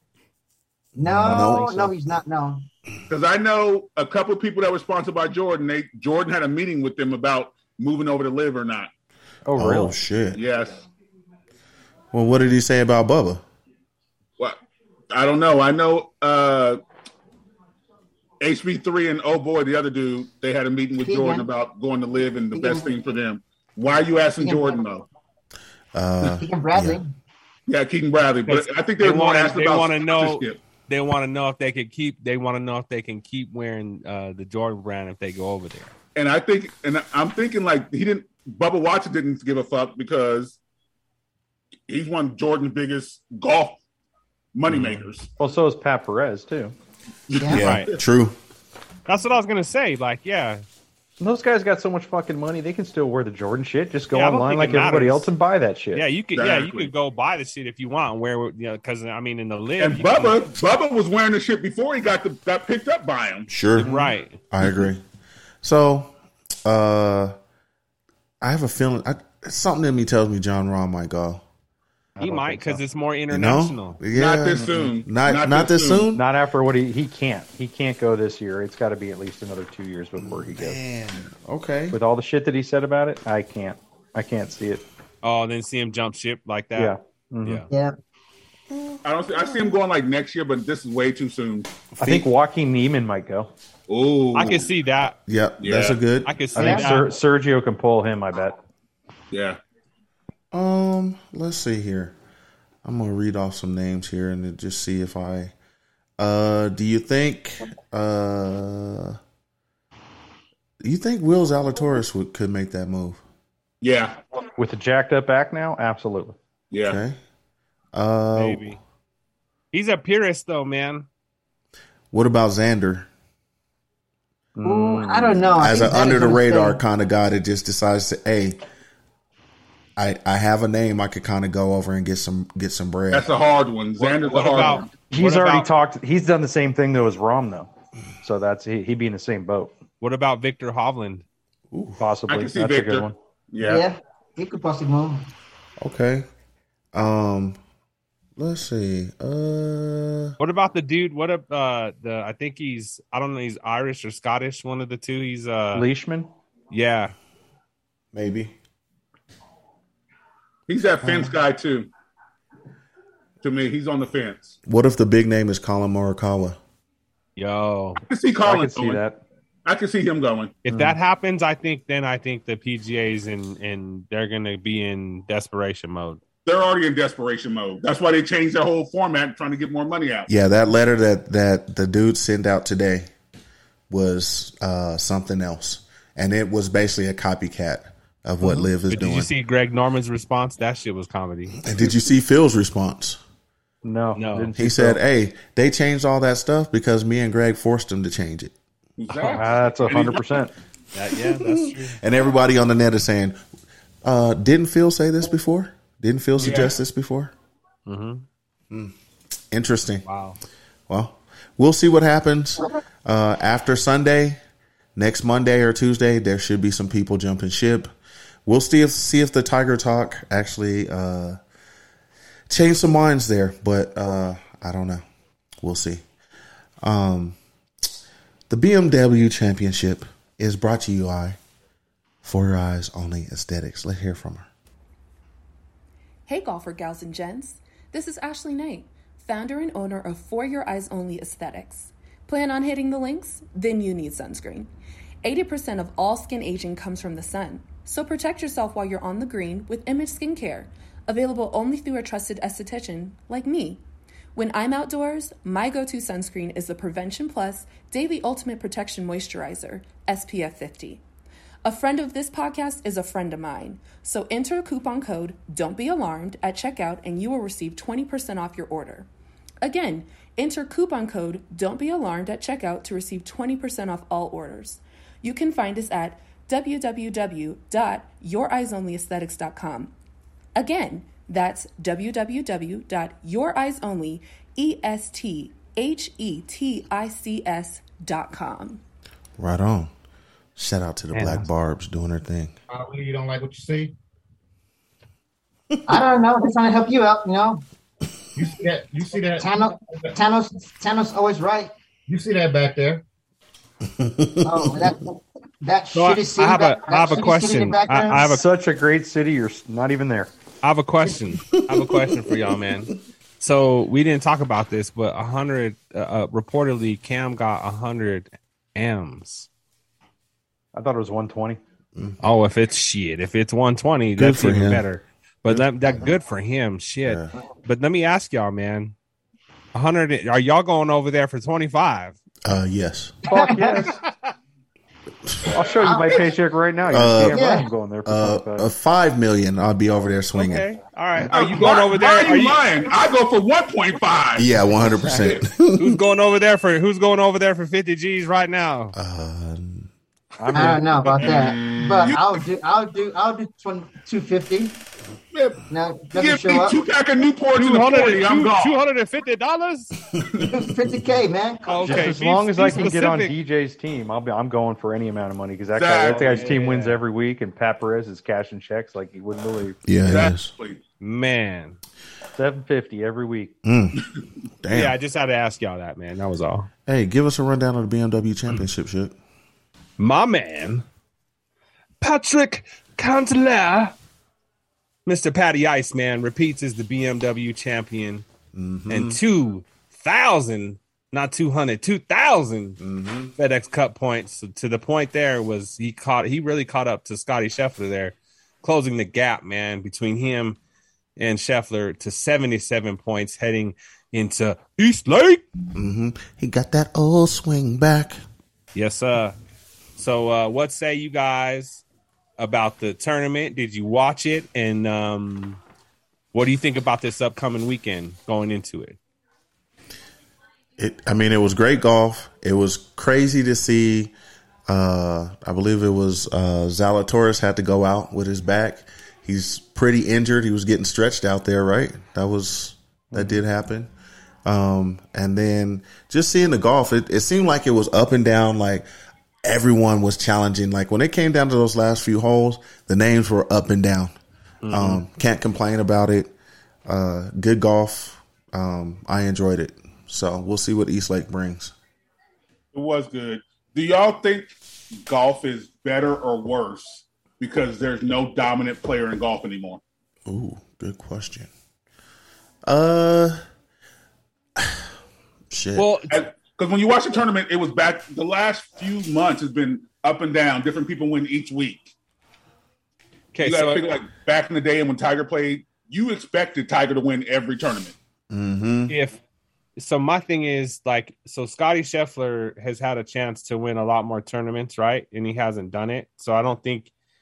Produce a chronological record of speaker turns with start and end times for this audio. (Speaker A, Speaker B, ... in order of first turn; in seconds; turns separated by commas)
Speaker A: 1.0-2.0, Speaker B: 1.0-2.7, Speaker C: 1.3-1.7, Speaker D: 3.1-8.9, Speaker C: 9.5-10.0, Speaker A: 9.6-10.4, Speaker D: 10.3-10.9, Speaker A: 12.1-13.4, Speaker D: 15.1-16.8, Speaker D: 18.4-25.1, Speaker B: 21.1-21.5, Speaker B: 22.5-22.9, Speaker B: 24.4-24.8, Speaker A: 25.9-27.0, Speaker B: 26.4-27.1, Speaker D: 27.7-30.6, Speaker E: 28.5-35.9, Speaker D: 36.2-40.6, Speaker D: 41.9-43.8, Speaker D: 44.5-45.3, Speaker C: 45.4-46.7, Speaker B: 47.3-47.6, Speaker D: 47.3-47.7, Speaker A: 47.5-48.4, Speaker E: 47.6-47.9, Speaker E: 49.1-50.6, Speaker C: 51.2-56.1, Speaker E: 54.1-55.3, Speaker E: 55.9-60.5, Speaker D: 56.4-56.9, Speaker D: 59.8-63.5, Speaker A: 63.5-65.0, Speaker E: 63.8-64.4, Speaker C: 63.8-64.1, Speaker A: 65.6-66.1, Speaker A: 66.7-67.3, Speaker A: 68.4-71.4, Speaker C: 72.2-72.8, Speaker E: 72.2-74.0, Speaker A: 73.3-76.2, Speaker D: 74.1-76.1, Speaker C: 74.5-74.9, Speaker C: 76.1-80.8, Speaker A: 80.2-82.0, Speaker C: 81.9-84.8, Speaker E: 85.2-87.7, Speaker C: 86.8-87.7, Speaker A: 88.7-89.0, Speaker D: 89.0-91.8, Speaker A: 92.0-92.2, Speaker C: 92.0-93.5, Speaker D: 93.9-94.7, Speaker E: 94.3-95.2, Speaker A: 95.3-96.5, Speaker D: 95.6-96.0, Speaker E: 96.2-97.1, Speaker C: 96.5-98.6, Speaker B: 96.6-96.9, Speaker D: 99.3-99.6, Speaker A: 100.5-102.2, Speaker A: 102.8-105.5, Speaker A: 106.2-109.2, Speaker A: 110.8-113.2, Speaker D: 113.8-114.2, Speaker C: 114.6-116.4, Speaker D: 116.7-117.0, Speaker A: 116.8-117.2, Speaker A: 117.9-118.8, Speaker E: 118.3-118.8, Speaker E: 119.7-121.1, Speaker A: 122.1-123.1, Speaker C: 124.6-125.6, Speaker B: 124.6-126.8, Speaker A: 125.6-128.6, Speaker A: 130.0-133.3, Speaker D: 133.1-134.9, Speaker E: 134.0-135.7, Speaker C: 135.1-137.7, Speaker C: 138.2-139.8, Speaker E: 140.0-141.2, Speaker A: 141.7-142.1, Speaker C: 142.0-143.2, Speaker D: 142.3-143.9, Speaker B: 143.6-145.3, Speaker A: 145.8-146.3, Speaker A: 146.9-147.6, Speaker A: 148.4-150.4, Speaker E: 150.4-155.9, Speaker C: 155.7-156.3, Speaker E: 156.7-157.1, Speaker A: 158.1-158.5, Speaker D: 160.7-161.9, Speaker D: 163.4-164.6, Speaker A: 164.7-166.6, Speaker E: 167.4-168.0, Speaker D: 168.1-169.0, Speaker C: 168.4-169.2, Speaker D: 169.7-170.6, Speaker E: 170.7-176.2, Speaker C: 170.7-171.0, Speaker D: 176.5-180.3, Speaker A: 180.3-183.1, Speaker A: 183.9-189.3, Speaker E: 188.6-191.6, Speaker A: 191.6-193.2, Speaker C: 193.8-195.0, Speaker E: 194.2-194.5, Speaker A: 194.6-198.5, Speaker D: 199.0-200.3, Speaker C: 199.2-200.5, Speaker E: 200.9-202.0, Speaker A: 201.2-203.4, Speaker A: 204.0-207.3, Speaker D: 206.4-206.8, Speaker E: 207.9-208.2, Speaker A: 209.5-210.1, Speaker E: 210.1-210.4, Speaker A: 210.9-214.4, Speaker A: 215.0-217.9, Speaker A: 218.4-221.4, Speaker A: 222.5-225.0, Speaker A: 225.6-226.0, Speaker A: 226.8-227.4, Speaker A: 228.5-231.4, Speaker A: 232.2-234.5, Speaker F: 236.3-244.7, Speaker F: 245.2-253.8, Speaker F: 254.3-261.0, Speaker F: 261.6-269.1, Speaker F: 269.6-279.9, Speaker F: 280.6-288.8, Speaker A: 289.4-289.9, Speaker A: 290.6-292.5, Speaker C: 291.1-291.4, Speaker G: 292.7-293.9, Speaker B: 295.9-297.6, Speaker G: 298.4-300.1, Speaker B: 299.4-301.7, Speaker G: 302.1-303.0, Speaker A: 304.0-304.8, Speaker B: 304.4-308.4, Speaker E: 305.9-308.4, Speaker C: 308.2-310.3, Speaker E: 310.6-319.5, Speaker A: 311.5-312.5, Speaker C: 320.7-321.6, Speaker E: 322.2-328.9, Speaker A: 324.2-324.9, Speaker A: 325.5-326.2, Speaker A: 327.0-327.3, Speaker E: 329.7-332.2, Speaker A: 332.4-333.2, Speaker B: 333.3-333.9, Speaker C: 333.3-334.0, Speaker A: 335.3-335.6, Speaker C: 335.5-338.7, Speaker B: 335.8-336.2, Speaker A: 336.9-337.5, Speaker B: 337.3-337.7, Speaker A: 338.1-341.3, Speaker E: 340.4-342.6, Speaker D: 341.3-344.5, Speaker A: 344.4-346.0, Speaker D: 345.1-345.4, Speaker E: 345.8-348.9, Speaker A: 348.9-349.9, Speaker C: 350.4-351.3, Speaker B: 350.5-354.8, Speaker D: 355.3-358.8, Speaker B: 355.7-356.8, Speaker E: 357.6-359.9, Speaker B: 360.4-362.1, Speaker E: 361.7-363.3, Speaker C: 361.8-369.8, Speaker D: 365.7-366.6, Speaker E: 366.1-367.0, Speaker A: 369.9-370.5, Speaker D: 370.1-370.8, Speaker E: 371.0-371.8, Speaker C: 372.4-373.6, Speaker A: 373.6-374.0, Speaker A: 374.6-375.0, Speaker E: 374.7-376.7, Speaker A: 376.9-379.2, Speaker E: 380.0-380.9, Speaker E: 382.0-383.9, Speaker E: 385.1-388.2, Speaker A: 388.5-389.2, Speaker E: 388.9-392.8, Speaker A: 392.8-393.3, Speaker E: 393.4-400.6, Speaker E: 401.2-405.4, Speaker A: 405.8-408.2, Speaker E: 408.8-409.4, Speaker E: 410.0-411.8, Speaker E: 412.4-415.6, Speaker E: 416.3-419.0, Speaker A: 420.8-424.1, Speaker A: 424.7-433.9, Speaker C: 433.1-433.4, Speaker A: 434.4-438.9, Speaker A: 439.4-444.1, Speaker E: 444.6-445.0, Speaker A: 444.7-446.3, Speaker A: 446.9-451.7, Speaker D: 452.7-459.8, Speaker A: 460.3-461.5, Speaker A: 462.6-463.4, Speaker A: 464.6-464.8, Speaker A: 465.5-465.9, Speaker E: 465.8-466.2, Speaker D: 466.1-471.9, Speaker E: 473.3-473.8, Speaker D: 473.4-477.9, Speaker A: 478.3-478.9, Speaker E: 478.9-479.2, Speaker E: 479.8-486.9